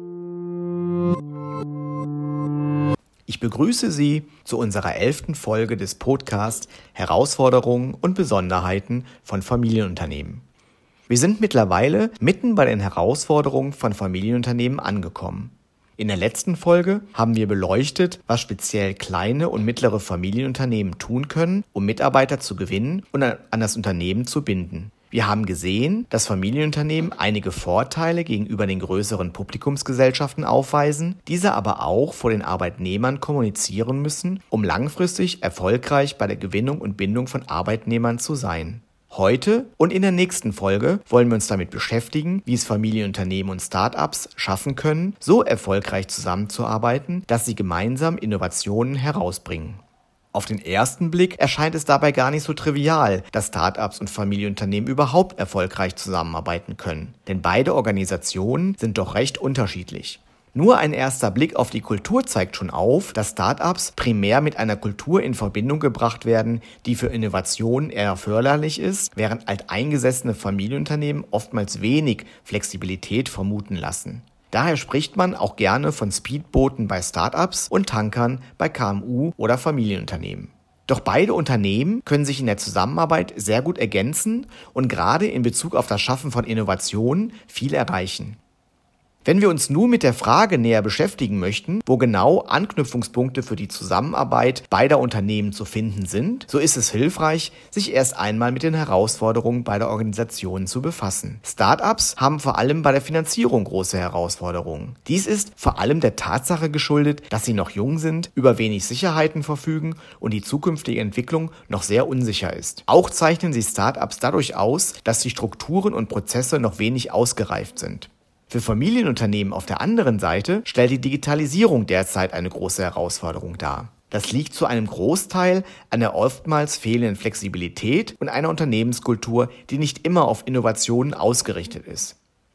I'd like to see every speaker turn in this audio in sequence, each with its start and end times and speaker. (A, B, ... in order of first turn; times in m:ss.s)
0:03.3-0:10.4 A
0:11.1-0:49.8 A
0:50.3-1:28.4 A
1:29.2-2:12.2 A